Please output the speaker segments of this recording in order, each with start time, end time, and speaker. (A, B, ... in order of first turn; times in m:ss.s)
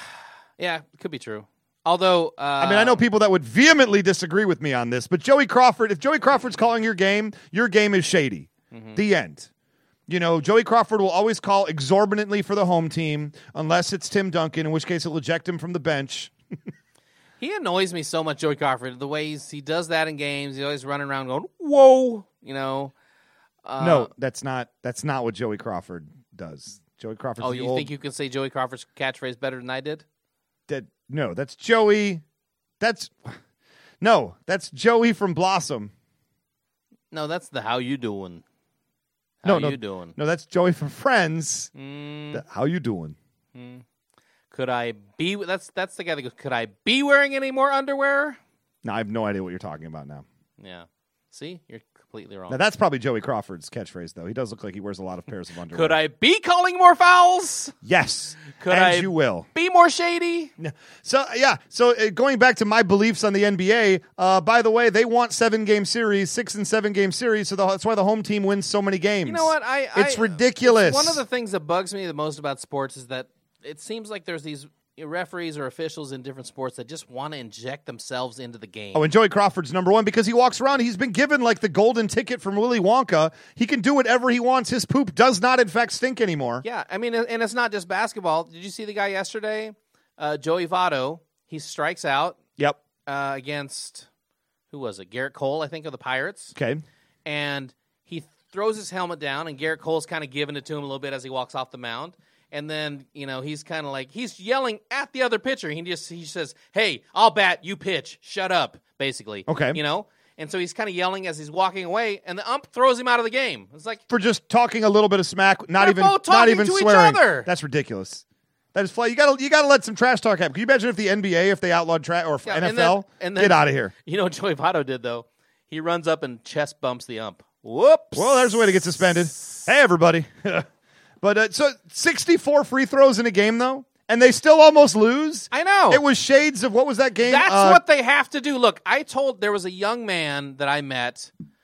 0:00.6-0:03.0 A
0:02.6-0:09.5 B
0:08.7-0:09.0 A
0:10.1-0:16.3 B
0:17.4-0:22.9 A
0:23.6-0:24.1 A
0:23.8-0:27.9 B
0:27.4-0:30.0 A
0:30.7-0:32.2 B
0:32.8-0:33.4 B
0:34.0-0:35.9 B
0:37.1-0:38.4 A
0:39.4-0:40.1 A
0:39.4-0:41.7 B
0:41.7-0:42.4 A
0:42.3-0:43.2 B
0:43.5-0:43.8 A
0:44.5-0:48.4 A
0:48.8-0:50.2 B
0:50.6-0:52.6 A
0:52.5-0:56.0 B
0:55.7-0:57.7 A
0:57.8-0:59.4 B
0:58.5-1:00.5 A
1:00.6-1:11.2 B
1:09.2-1:19.0 A
1:18.9-1:26.6 B
1:26.6-1:32.4 A
1:33.0-1:34.1 A
1:34.7-1:36.5 A
1:36.5-1:36.8 B
1:37.2-1:54.0 A
1:49.5-1:49.8 B
1:54.1-1:58.2 B
1:55.8-1:57.5 A
1:58.7-2:03.9 B
2:02.4-2:09.6 A
2:08.1-2:10.6 B
2:11.2-2:17.8 B
2:15.5-2:16.0 A
2:17.2-2:21.3 A